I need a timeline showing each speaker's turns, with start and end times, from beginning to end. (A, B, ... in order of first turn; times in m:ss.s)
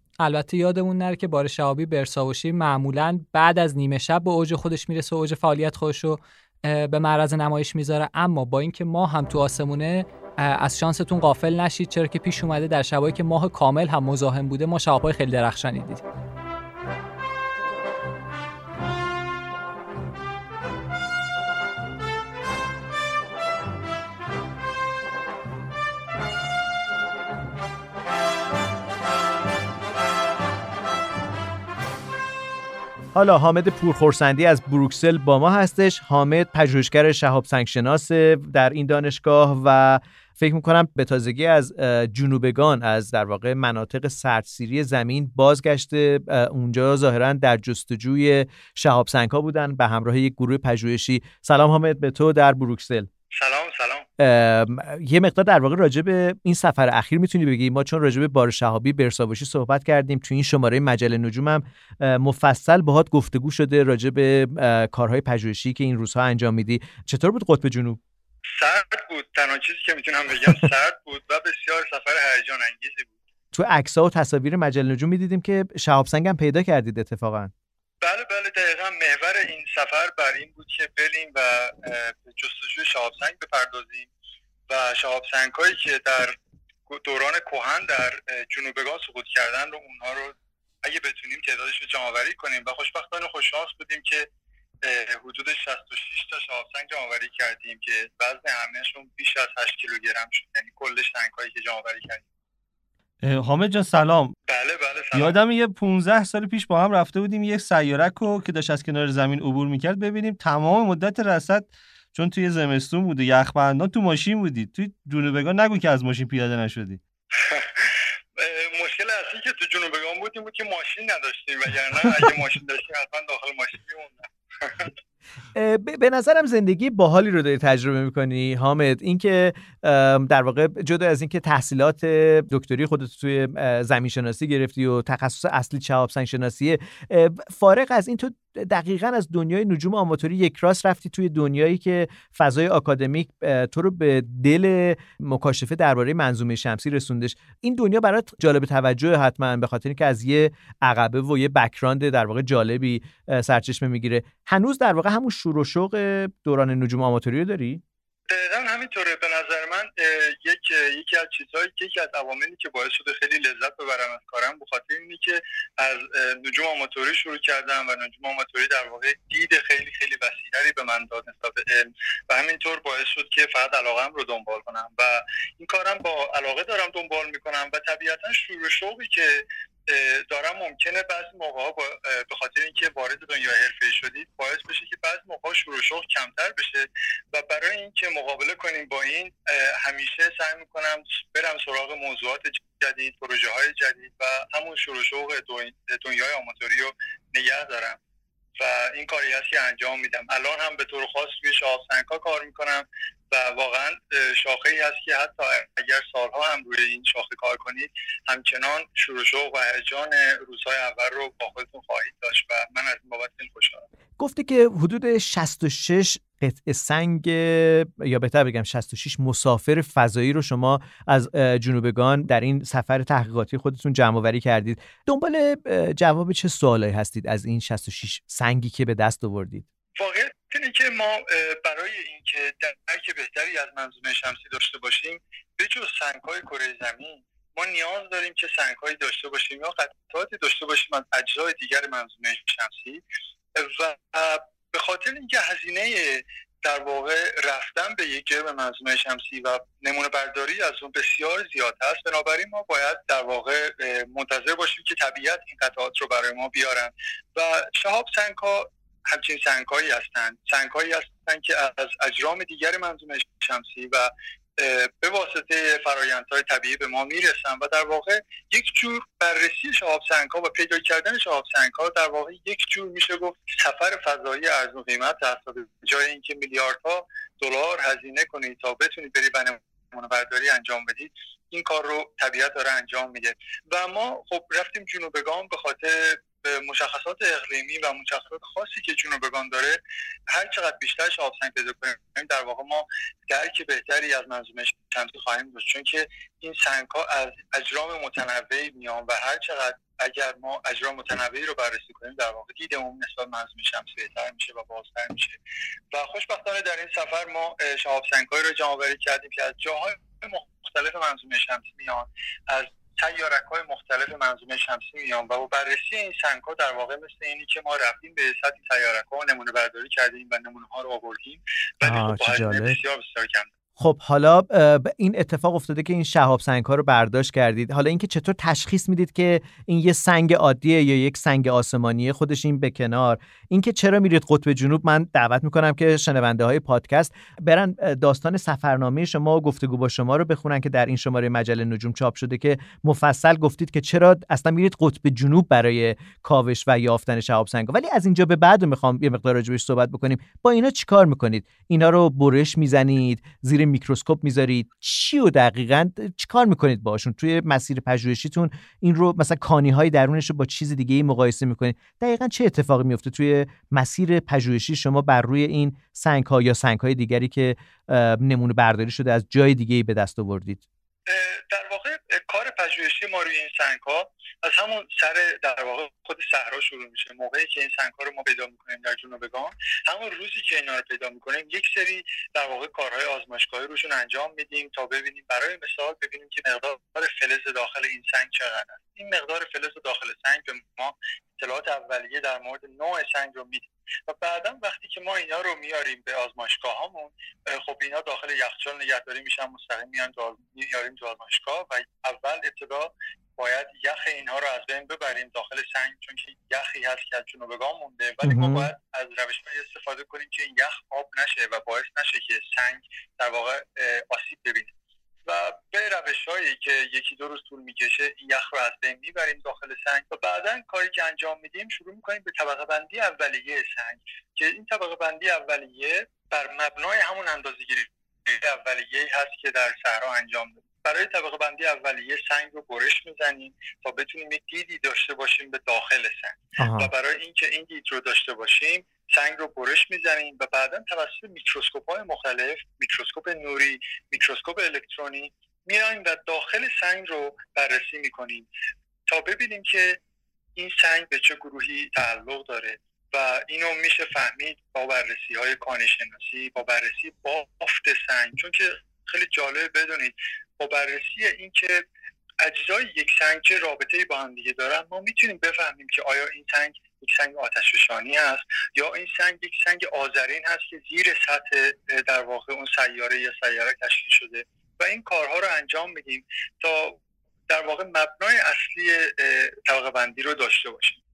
0:00.2-0:16.0 A
0:33.1-0:53.1 B
0:53.3-0:54.0 C
0:54.2-1:08.0 B
1:08.6-1:13.1 C
1:13.5-1:17.5 B
1:18.0-1:24.1 C
1:24.7-1:26.4 C
1:26.9-1:34.3 C
1:34.8-1:42.2 C
1:43.2-1:44.3 D
1:44.5-1:45.3 C
1:45.1-1:57.0 D
1:57.4-2:04.9 C
2:05.5-2:37.8 B
2:38.3-3:18.0 C
3:18.6-3:33.8 C
3:34.2-3:49.6 B
3:50.0-4:03.0 C
4:03.6-5:05.4 C
5:05.9-5:23.5 C
5:21.8-5:22.8 B
5:23.8-6:10.6 B
6:11.1-6:54.7 C
6:48.2-6:48.7 B
6:55.2-7:28.5 C
7:16.6-7:16.9 B
7:29.1-7:30.0 C
7:30.6-7:41.8 C
7:42.4-7:57.0 C
7:57.5-8:01.0 C